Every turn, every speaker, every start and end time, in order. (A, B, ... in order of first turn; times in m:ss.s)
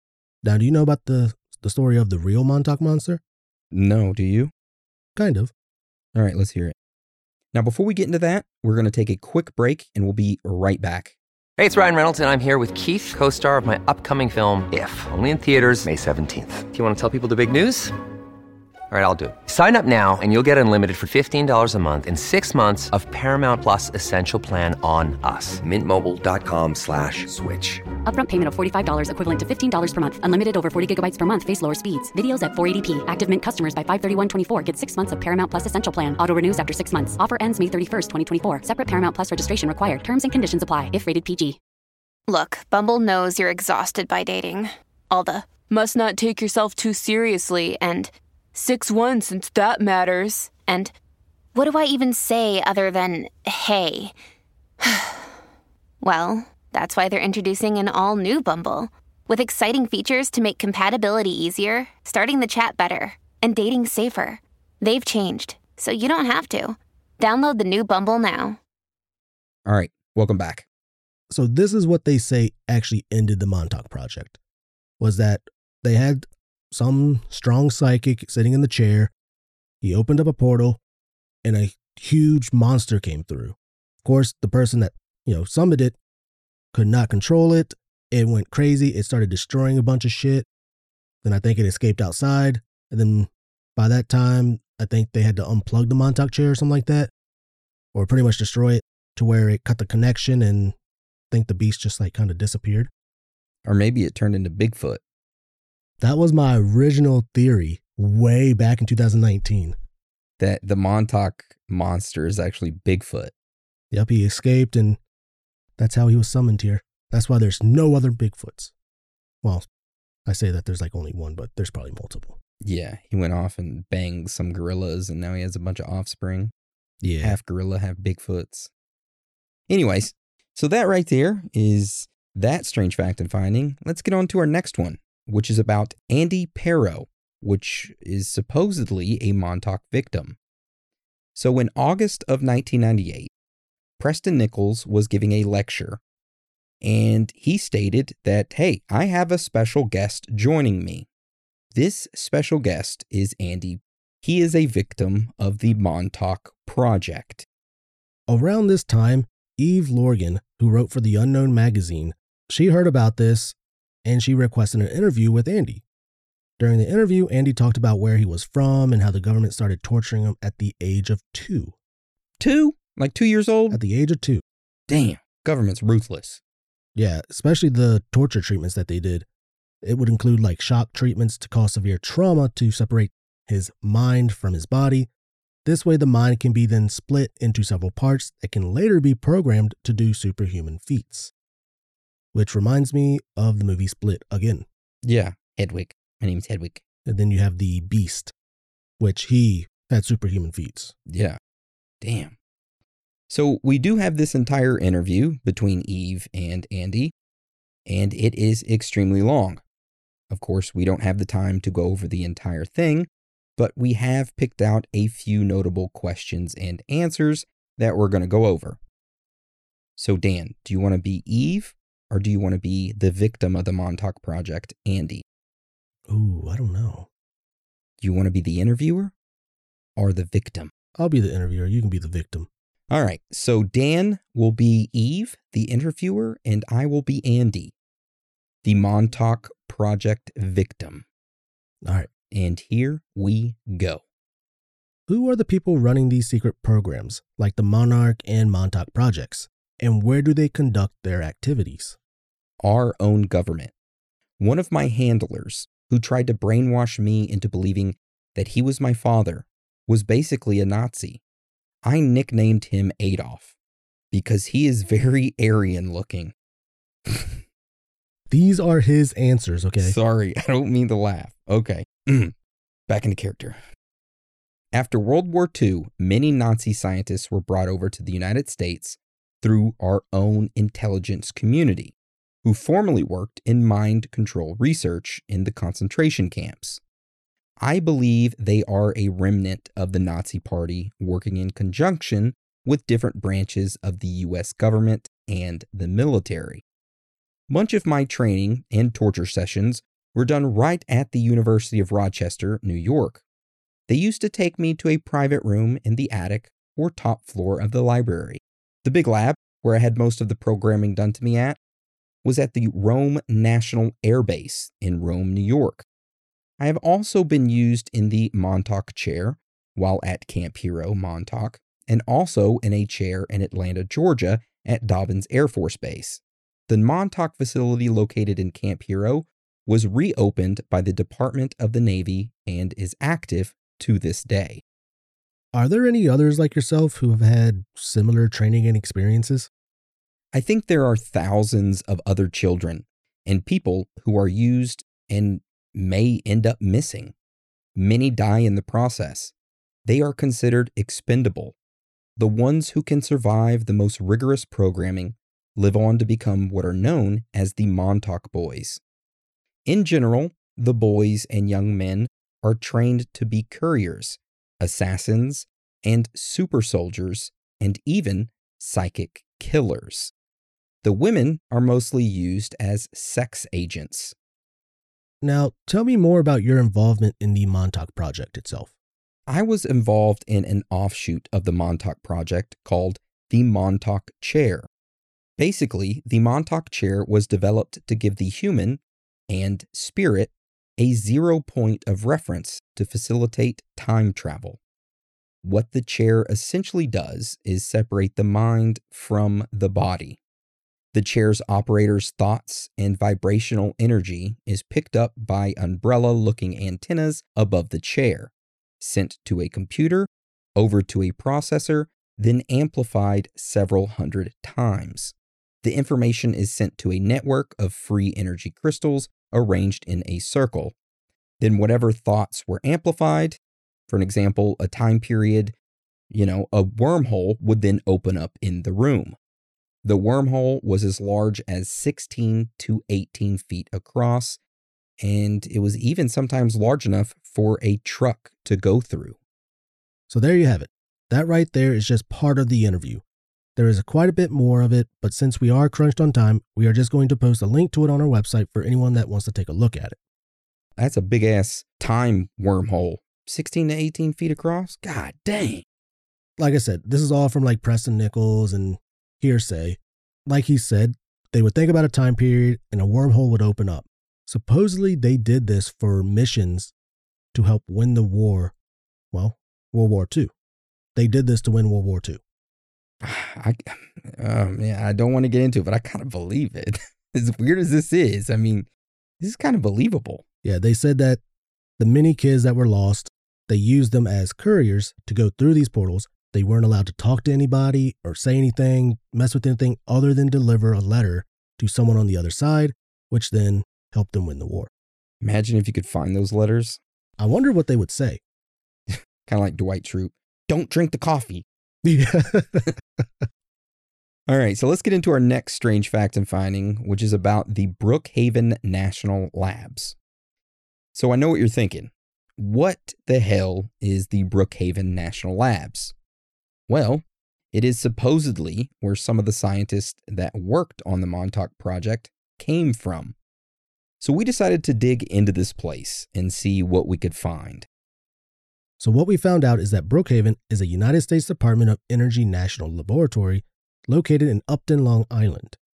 0:00.4-0:03.2 A
0:03.7-0:04.5 B
0:05.2-0:05.5 A
0:06.1-0:06.7 B
0:07.5-0:11.1 B
0:11.6-0:17.9 C
0:18.9-0:27.9 C
0:28.0-0:41.6 D
0:42.3-0:50.9 E
0:51.5-0:54.1 E
0:54.8-0:55.3 E
0:56.0-1:08.6 E
1:09.6-1:10.6 B
1:11.3-1:14.4 A
1:15.0-1:19.1 A
1:19.8-1:20.8 A
1:21.4-1:26.0 A
1:26.7-1:30.4 A
1:31.2-1:37.1 A
1:37.9-1:40.8 A
1:41.3-1:42.9 A
1:43.6-1:45.0 B
1:46.0-1:49.8 A
1:50.4-1:53.3 B
1:53.9-1:55.0 A
1:55.8-1:58.7 A
2:00.2-2:02.4 A
2:02.6-2:06.5 B
2:07.0-2:07.4 A
2:07.2-2:08.7 B
2:09.7-2:20.4 B
2:21.3-2:23.3 B
2:24.0-2:26.0 B
2:26.8-2:31.1 B
2:31.7-2:37.4 B
2:38.3-2:45.8 A
2:46.6-2:51.7 A
2:52.4-2:53.8 B
2:53.7-2:54.4 A
2:54.9-2:56.4 B
2:57.0-2:59.2 A
2:59.8-3:05.1 A
3:05.6-3:11.3 A
3:12.3-3:14.6 A
3:15.0-3:16.8 B
3:17.0-3:18.3 A
3:19.0-3:20.9 A
3:21.1-3:21.4 B
3:22.0-3:22.3 B
3:23.3-3:27.1 B
3:27.9-3:29.6 B
3:30.3-3:38.8 B
3:40.0-3:45.2 B
3:46.1-3:47.1 A
3:48.0-3:49.1 B
3:50.0-3:50.7 B
3:51.0-3:52.5 A
3:52.9-3:57.7 B
3:58.6-4:01.0 B
4:01.8-4:02.1 A
4:02.3-4:04.0 B
4:05.1-4:12.0 A
4:12.6-4:13.7 B
4:14.4-4:21.2 B
4:21.8-4:23.5 B
4:24.1-4:26.3 B
4:27.1-4:27.4 B
4:28.3-4:30.0 A
4:29.8-4:32.3 B
4:32.9-4:33.6 B
4:34.7-4:46.8 B
4:47.6-4:56.6 B
4:57.5-5:03.2 B
5:03.9-5:11.6 B
5:12.2-5:15.8 B
5:16.6-5:34.6 B
5:35.5-5:39.5 A
5:40.3-5:47.1 B
5:47.8-5:49.3 B
5:49.8-5:51.5 B
5:52.2-5:58.8 B
5:59.7-6:10.1 B
6:10.8-6:14.1 B
6:15.2-6:18.7 A
6:19.3-6:24.7 B
6:25.4-6:34.6 B
6:35.4-6:40.2 B
6:40.9-7:00.7 B
7:01.4-7:03.4 B
7:03.9-7:05.5 B
7:06.1-7:09.2 B
7:09.8-7:14.4 B
7:15.0-7:19.2 B
7:20.1-7:23.0 A
7:23.6-7:30.0 A
7:30.8-7:35.6 B
7:36.4-7:46.7 A
7:47.3-7:48.5 A
7:49.1-7:50.3 A
7:51.0-7:52.2 A
7:53.0-7:58.7 B
7:59.2-8:00.2 B
8:00.4-8:01.2 A
8:01.8-8:14.7 A
8:15.2-8:16.8 B
8:17.2-8:18.2 A
8:18.9-8:21.4 B
8:21.8-8:23.0 A
8:24.3-8:30.0 B
8:30.9-8:35.9 B
8:36.7-8:43.1 B
8:44.0-8:47.6 B
8:48.8-8:55.6 A